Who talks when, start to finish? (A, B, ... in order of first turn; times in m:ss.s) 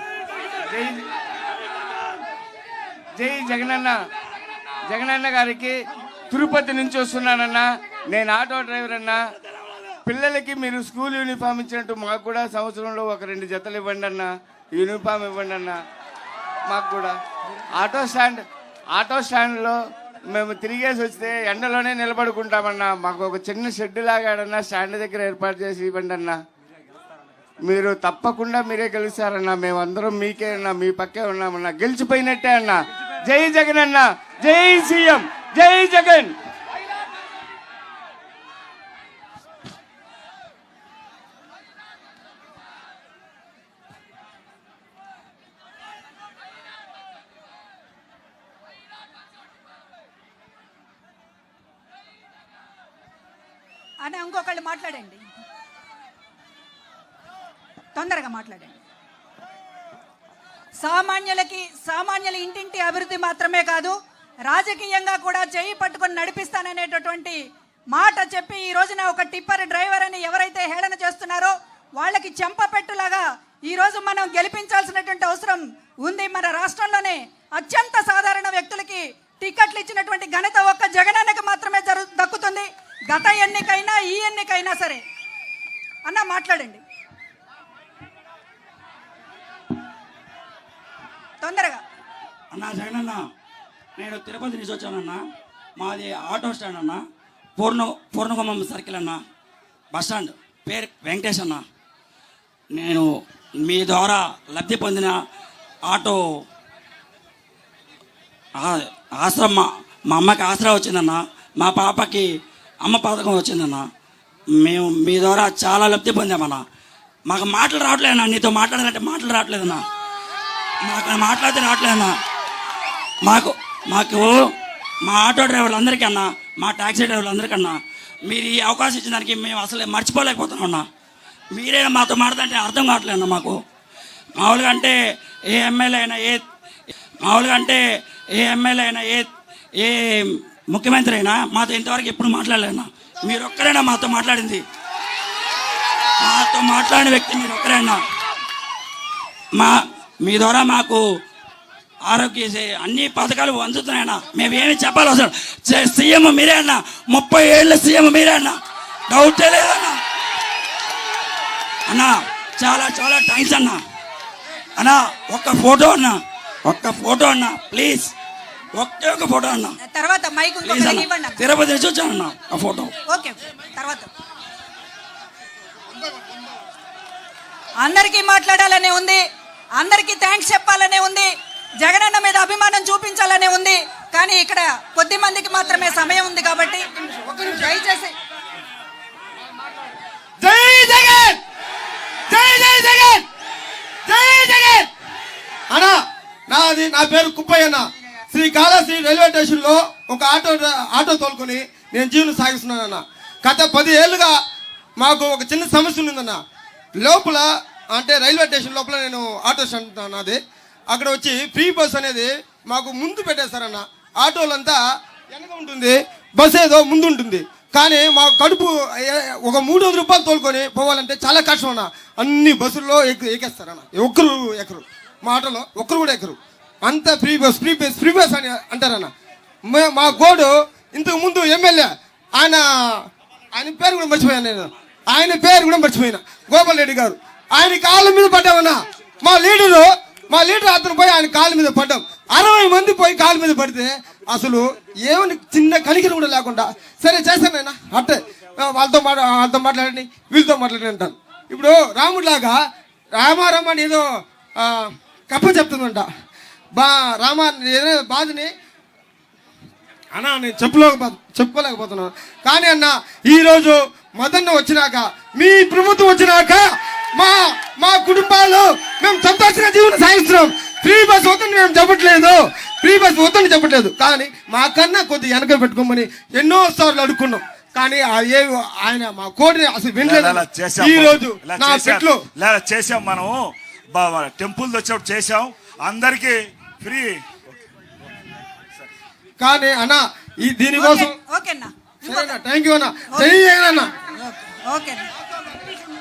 0:00.7-0:01.0 A
0:03.2-0:04.0 A
0:04.9-0:05.8 A
0:06.3-0:09.2 A
0:10.1-0:15.8 A
0:16.7-0:17.2 A
0:17.8-0:18.4 A
0:18.9-0:19.8 A
0:20.3-0:26.4 A
0:27.7-0:36.4 A
0:54.0-0:55.2 B
0:58.0-0:58.8 B
1:00.8-1:04.0 B
1:04.5-1:07.4 B
1:07.9-1:25.0 B
1:26.1-1:26.8 B
1:31.4-1:31.8 B
1:32.5-1:33.2 C
1:34.0-1:35.2 C
1:35.8-1:37.0 C
1:37.6-1:39.2 C
1:39.9-1:41.6 C
1:42.8-1:43.1 C
1:43.7-1:45.1 C
1:45.9-1:46.2 C
1:48.6-1:52.3 C
1:52.9-1:53.8 C
1:54.6-1:56.6 C
1:57.3-1:59.8 C
2:00.9-2:02.1 C
2:03.3-2:04.3 C
2:05.1-2:07.7 C
2:08.3-2:10.8 C
2:11.6-2:13.6 C
2:14.4-2:15.0 C
2:15.5-2:16.4 C
2:17.2-2:17.8 C
2:18.4-2:19.3 C
2:20.7-2:24.6 C
2:26.2-2:28.0 C
2:29.6-2:31.0 C
2:32.1-2:38.6 C
2:39.1-2:40.0 C
2:41.9-2:43.8 C
2:44.8-2:48.1 C
2:48.8-2:49.8 C
2:49.8-2:51.4 B
2:50.6-2:52.9 C
2:53.1-2:54.1 B
2:57.8-2:59.2 B
2:59.8-3:01.3 B
3:01.8-3:06.9 B
3:07.0-3:07.8 D
3:07.5-3:08.1 B
3:10.4-3:11.4 D
3:12.3-3:13.2 D
3:14.1-3:14.9 D
3:15.7-3:16.0 D
3:16.5-3:24.4 D
3:25.0-3:26.4 D
3:27.0-3:30.4 D
3:30.9-3:34.8 D
3:35.3-3:49.1 D
3:49.7-3:52.6 D
3:53.6-4:12.6 D
4:13.1-4:14.0 D
4:14.6-4:16.1 D
4:16.8-4:18.5 D
4:20.1-4:42.2 D
4:40.0-4:47.2 E
4:49.4-4:51.1 D
4:50.8-4:52.4 B
4:52.1-4:53.9 D
4:54.3-4:55.1 B